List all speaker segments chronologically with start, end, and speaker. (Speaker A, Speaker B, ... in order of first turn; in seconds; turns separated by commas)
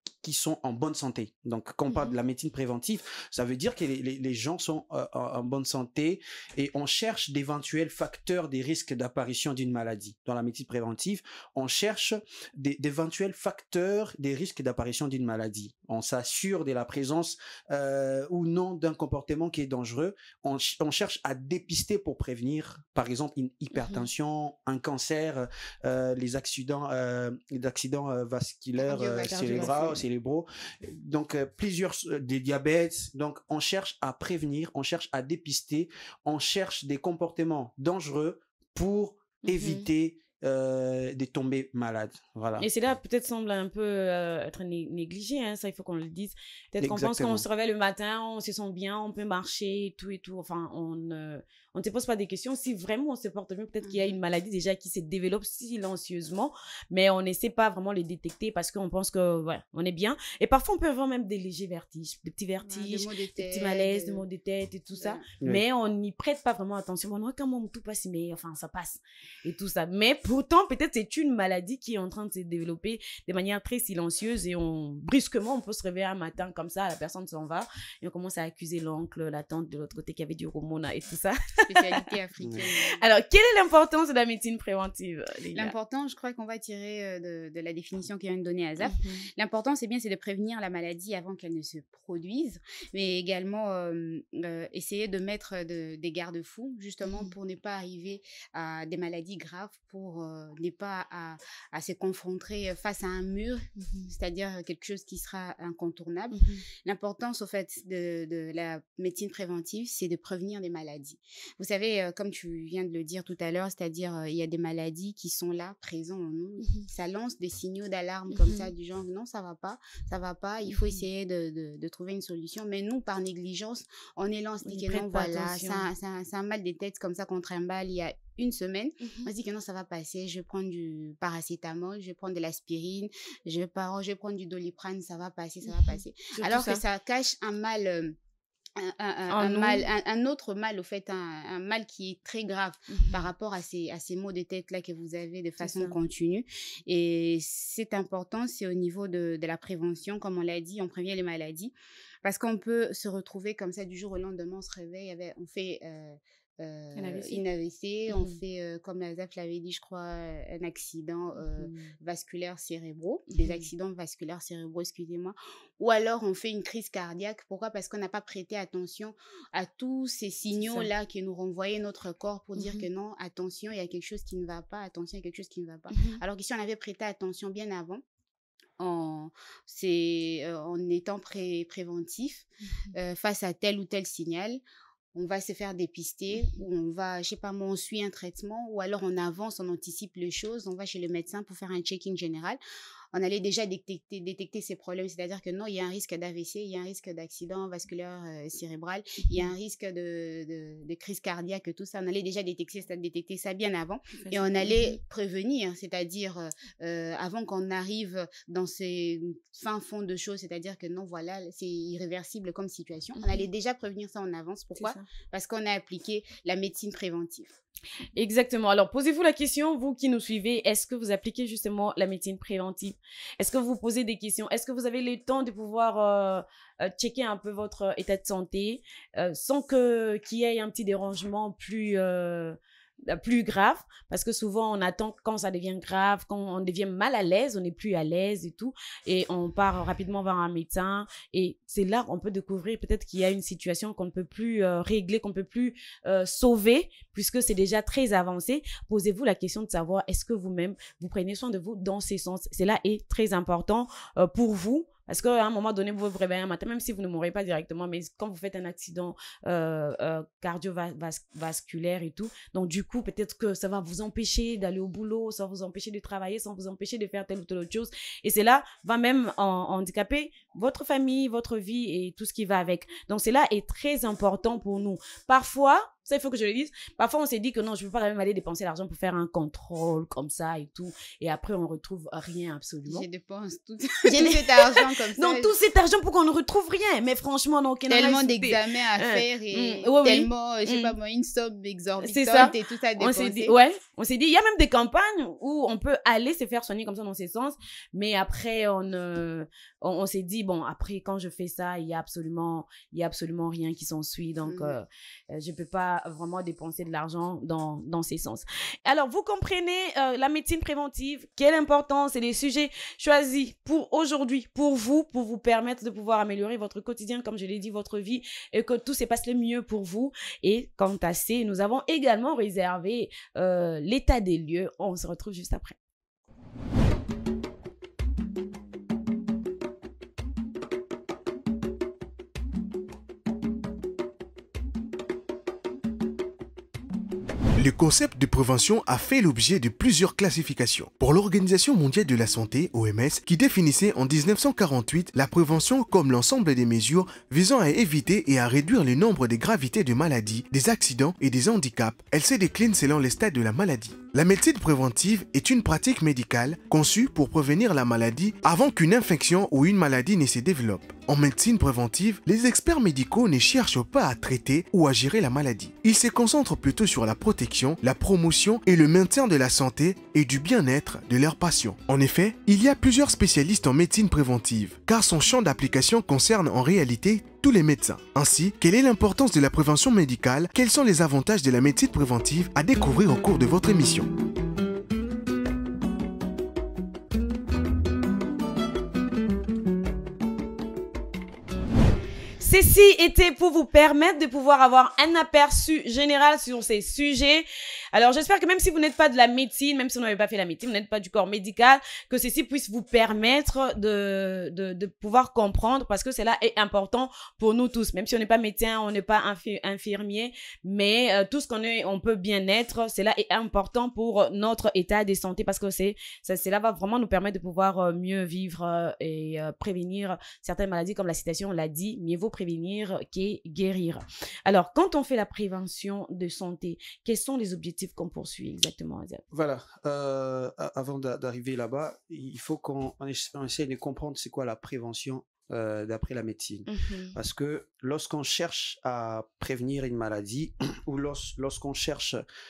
Speaker A: 0.2-42.7, Speaker B: 23.8-24.0, Speaker C: 28.8-30.0, Speaker B: 29.2-29.9, Speaker B: 39.5-39.9, Speaker B: 42.6-82.0, Speaker A: 46.8-47.4, Speaker C: 53.9-54.1, Speaker C: 62.6-64.2, Speaker C: 65.0-65.2, Speaker C: 81.6-83.0, Speaker B: 82.9-85.7, Speaker C: 85.5-138.2, Speaker B: 88.8-89.2, Speaker B: 97.0-97.3, Speaker B: 103.8-104.1, Speaker B: 106.3-106.6, Speaker B: 118.3-118.7, Speaker B: 120.7-121.0, Speaker B: 124.7-125.9, Speaker B: 129.0-129.3, Speaker B: 135.7-136.8, Speaker C: 138.8-151.7, Speaker B: 139.3-139.8, Speaker B: 142.9-143.2, Speaker B: 145.6-145.9, Speaker C: 152.2-178.0, Speaker B: 157.0-157.4, Speaker B: 158.1-158.4, Speaker B: 161.4-161.9, Speaker B: 163.3-163.7, Speaker B: 170.6-170.9, Speaker B: 172.6-172.9, Speaker B: 175.9-176.2, Speaker C: 178.8-184.6, Speaker C: 185.1-192.6, Speaker C: 193.1-217.6, Speaker B: 199.2-199.5, Speaker B: 204.2-205.0, Speaker B: 213.2-213.5, Speaker B: 214.8-215.1, Speaker B: 218.2-283.1, Speaker C: 282.9-285.5, Speaker B: 284.1-290.9, Speaker C: 287.9-293.5, Speaker B: 292.0-325.8, Speaker C: 304.4-304.8, Speaker D: 337.6-384.1, Speaker B: 392.4-429.2, Speaker A: 429.3-442.2, Speaker B: 436.7-437.2